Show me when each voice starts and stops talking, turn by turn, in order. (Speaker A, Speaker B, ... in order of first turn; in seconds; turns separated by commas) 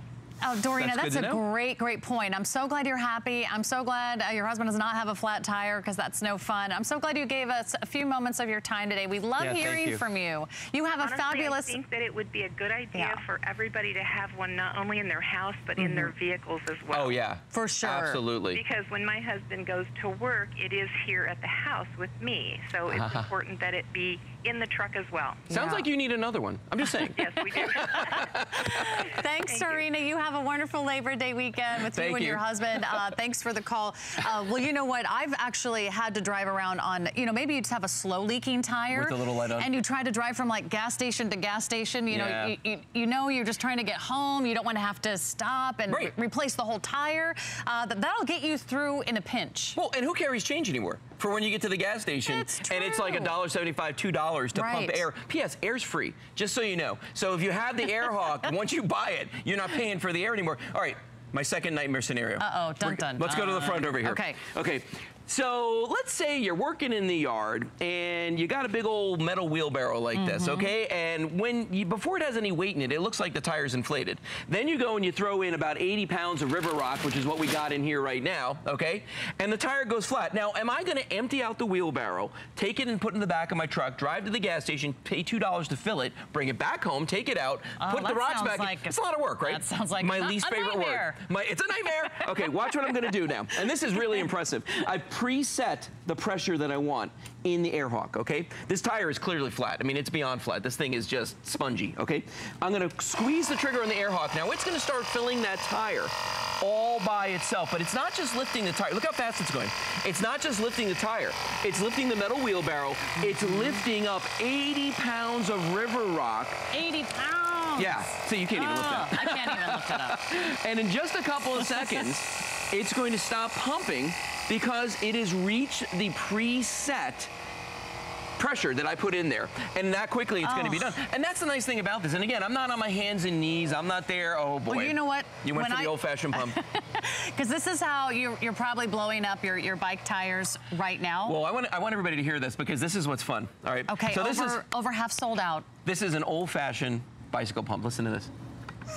Speaker A: 0.4-11.8, Speaker B: 0.8-1.4, Speaker B: 9.4-10.0, Speaker C: 11.0-17.2, Speaker A: 12.9-13.2, Speaker A: 15.8-16.1, Speaker B: 16.9-18.6, Speaker A: 17.5-18.2, Speaker C: 18.5-25.4, Speaker B: 22.9-23.3, Speaker A: 25.5-25.9, Speaker B: 25.5-29.0, Speaker C: 26.9-29.9, Speaker A: 28.7-49.8, Speaker B: 31.9-33.0, Speaker B: 38.9-39.7, Speaker B: 42.1-42.6, Speaker B: 45.9-46.1, Speaker B: 49.7-116.7, Speaker A: 52.2-53.4, Speaker A: 54.5-55.0, Speaker A: 62.4-64.4, Speaker A: 70.1-70.7, Speaker A: 87.8-91.2, Speaker A: 113.2-113.6, Speaker A: 116.7-118.0, Speaker B: 117.8-127.3, Speaker A: 118.5-120.4, Speaker B: 128.4-136.6, Speaker A: 130.4-130.9, Speaker A: 134.7-141.4, Speaker B: 141.2-144.6, Speaker A: 143.9-145.7, Speaker B: 145.8-148.3